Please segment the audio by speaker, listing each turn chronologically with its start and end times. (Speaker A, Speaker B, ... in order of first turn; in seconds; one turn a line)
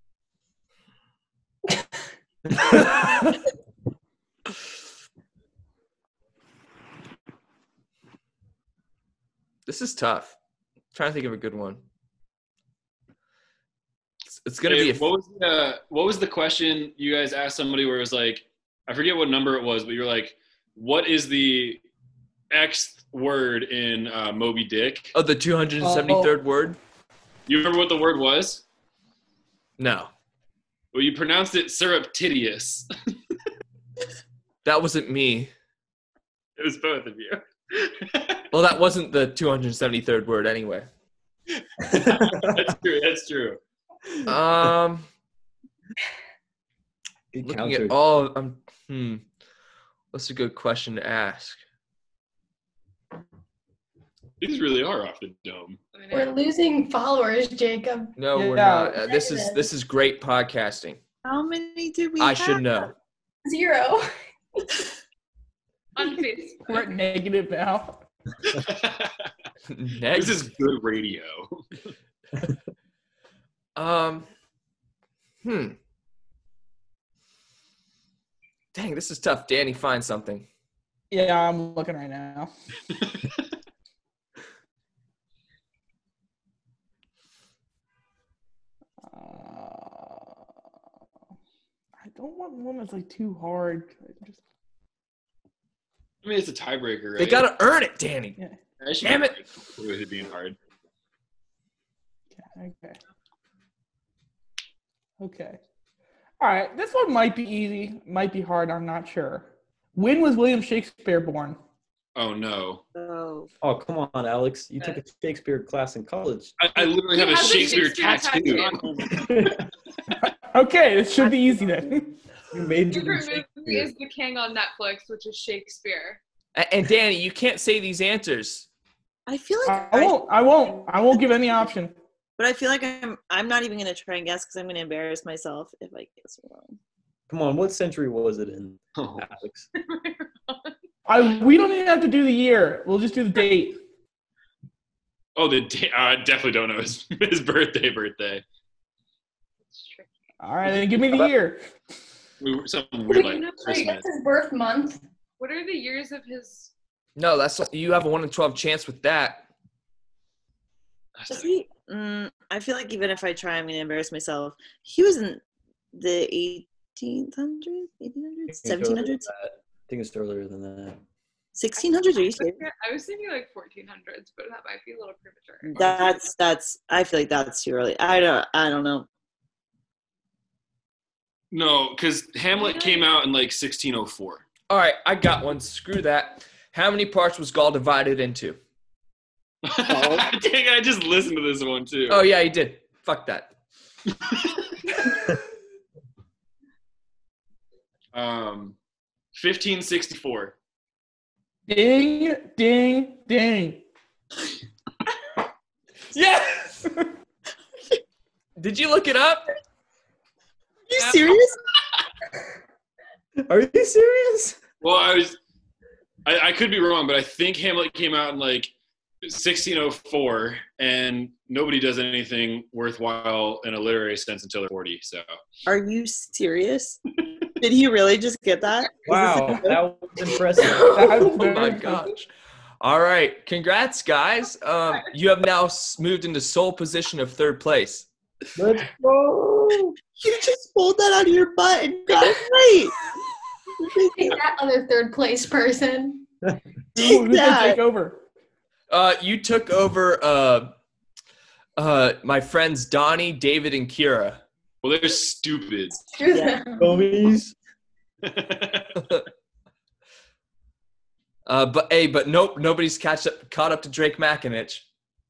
Speaker A: 2.5-2.9
Speaker B: 9.7-10.4
Speaker B: 10.9-11.8
Speaker B: 14.3-15.1
Speaker C: 14.7-21.8
Speaker C: 22.5-25.1
Speaker B: 25.1-26.8
Speaker D: 25.8-26.3
Speaker C: 27.5-28.6
Speaker B: 29.8-30.1
Speaker C: 30.9-32.9
Speaker B: 34.6-35.5
Speaker C: 36.6-38.4
Speaker B: 38.5-40.9
Speaker C: 41.8-43.6
Speaker A: 41.9-42.5
Speaker B: 44.2-45.1
Speaker A: 47.3-48.0
Speaker B: 47.4-49.2
Speaker B: 50.1-51.6
Speaker C: 54.4-55.8
Speaker E: 55.9-56.4
Speaker F: 56.1-58.2
Speaker B: 58.2-61.0
Speaker D: 58.4-59.0
Speaker F: 59.0-59.7
Speaker G: 61.2-62.9
Speaker B: 62.2-62.9
Speaker F: 63.5-64.1
Speaker E: 66.0-67.0
Speaker D: 66.7-68.0
Speaker C: 68.4-69.3
Speaker B: 69.7-70.5
Speaker C: 70.1-71.7
Speaker B: 73.8-74.3
Speaker B: 75.4-75.8
Speaker B: 78.7-80.5
Speaker D: 81.1-82.5
Speaker C: 82.9-83.4
Speaker D: 89.1-90.3
Speaker D: 92.0-94.4
Speaker C: 96.2-97.5
Speaker B: 97.2-98.4
Speaker C: 98.8-100.6
Speaker B: 99.0-99.3
Speaker D: 102.4-103.0
Speaker D: 105.2-105.6
Speaker D: 106.4-111.6
Speaker C: 112.2-112.8
Speaker G: 113.0-113.5
Speaker A: 113.6-116.6
Speaker C: 116.6-119.1
Speaker E: 117.1-119.3
Speaker A: 119.1-119.6
Speaker D: 120.2-122.2
Speaker G: 121.2-121.8
Speaker A: 122.5-123.9
Speaker E: 122.9-126.2
Speaker B: 126.5-128.7
Speaker G: 129.3-130.2
Speaker D: 129.7-131.9
Speaker G: 130.9-131.3
Speaker G: 132.4-136.8
Speaker A: 137.3-139.7
Speaker C: 139.0-139.3
Speaker E: 139.8-140.8
Speaker D: 141.1-143.8
Speaker C: 145.4-148.4
Speaker E: 149.7-150.3
Speaker D: 150.4-151.7
Speaker C: 152.4-154.1
Speaker F: 153.1-155.0
Speaker E: 155.4-156.7
Speaker B: 157.2-159.5
Speaker C: 161.2-161.6
Speaker G: 161.3-165.4
Speaker G: 165.9-169.3
Speaker A: 168.5-171.0
Speaker G: 171.6-172.6
Speaker E: 171.8-176.0
Speaker G: 175.7-179.1
Speaker C: 181.5-184.4
Speaker E: 182.5-183.1
Speaker B: 184.7-188.6
Speaker C: 189.6-192.2
Speaker A: 189.9-190.2
Speaker B: 192.1-193.5
Speaker C: 194.1-194.7
Speaker C: 198.1-198.8
Speaker C: 199.3-200.6
Speaker D: 201.7-203.8
Speaker B: 206.1-206.9
Speaker B: 208.6-209.5
Speaker G: 210.9-211.6
Speaker E: 211.0-211.3
Speaker A: 213.4-214.6
Speaker C: 214.8-215.4
Speaker C: 216.2-218.7
Speaker C: 219.2-225.3
Speaker G: 225.7-227.0
Speaker G: 227.6-229.8
Speaker A: 229.1-231.3
Speaker D: 229.3-229.6
Speaker F: 230.6-231.8
Speaker D: 230.8-232.1
Speaker B: 231.3-232.3
Speaker B: 232.8-238.1
Speaker A: 238.6-239.9
Speaker G: 240.2-242.9
Speaker G: 243.8-244.4
Speaker F: 244.2-246.2
Speaker G: 247.0-247.8
Speaker D: 247.0-248.2
Speaker B: 248.9-250.7
Speaker B: 251.8-254.4
Speaker C: 254.8-256.0
Speaker F: 256.1-257.1
Speaker G: 256.3-256.6
Speaker A: 256.8-257.6
Speaker C: 258.2-259.2
Speaker B: 261.5-264.8